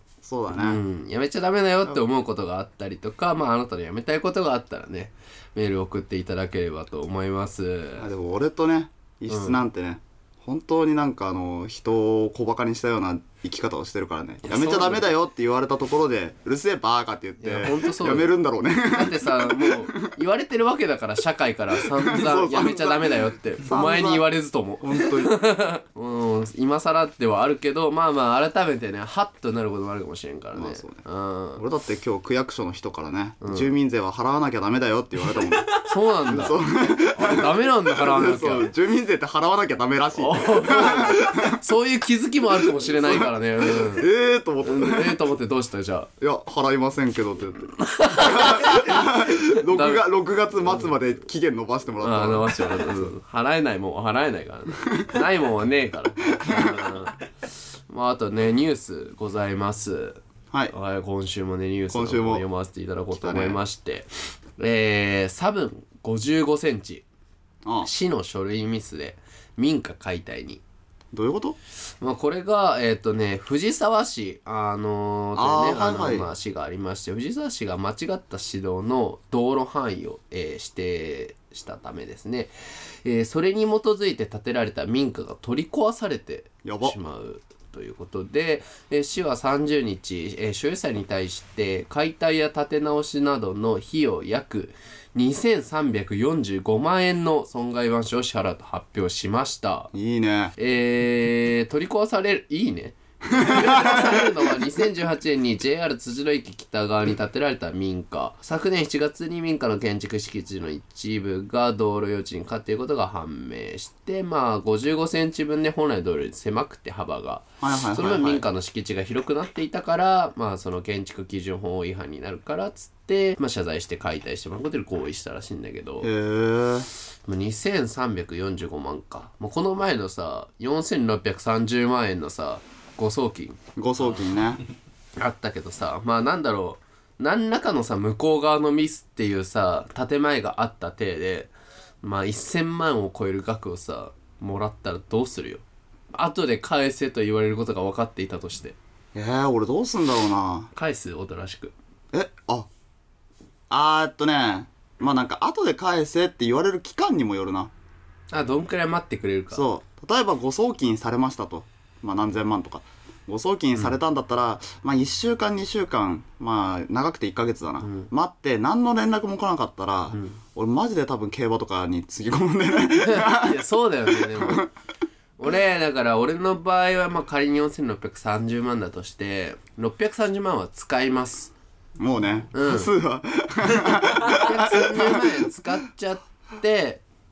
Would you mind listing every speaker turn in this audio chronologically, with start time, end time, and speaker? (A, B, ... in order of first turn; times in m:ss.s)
0:00.2-0:00.8 A
0:00.5-0:08.1 B
0:08.0-0:20.2 A
0:09.3-0:09.6 B
0:14.4-0:15.1 B
0:17.4-0:18.3 B
0:18.8-0:31.6 B
0:21.8-0:24.3 A
0:24.8-0:25.4 A
0:30.5-0:31.0 A
0:31.6-0:41.6 A
0:33.4-0:33.7 B
0:35.7-0:38.7 B
0:40.2-0:44.1 B
0:42.6-0:45.2 A
0:44.6-0:46.1 B
0:46.2-0:53.1 A
0:47.7-0:50.0 B
0:52.0-0:57.2 B
0:56.4-0:56.8 A
0:57.9-1:07.0 B
1:01.9-1:02.4 A
1:03.1-1:03.6 A
1:07.6-1:07.9 A
1:07.8-1:10.6 B
1:11.1-1:11.6 A
1:12.0-1:39.9 B
1:15.4-1:16.3 A
1:26.6-1:27.0 A
1:39.9-1:40.5 A
1:40.6-2:06.1 B
1:43.3-1:44.6 A
1:57.6-1:58.4 A
2:06.0-2:06.9 A
2:07.2-2:13.6 B
2:13.8-2:14.6 A
2:15.2-2:21.5 B
2:22.0-2:25.6 B
2:26.1-2:28.8 B
2:29.1-2:30.7 A
2:30.7-2:31.7 B
2:32.1-2:32.7 A
2:33.7-2:37.7 A
2:38.3-2:39.7 B
2:39.5-2:54.7 A
2:47.8-2:48.1 B
2:50.1-2:50.4 B
2:53.0-2:54.7 B
2:55.4-3:01.5 B
3:02.0-3:05.5 A
3:02.5-3:02.9 B
3:04.2-3:07.0 B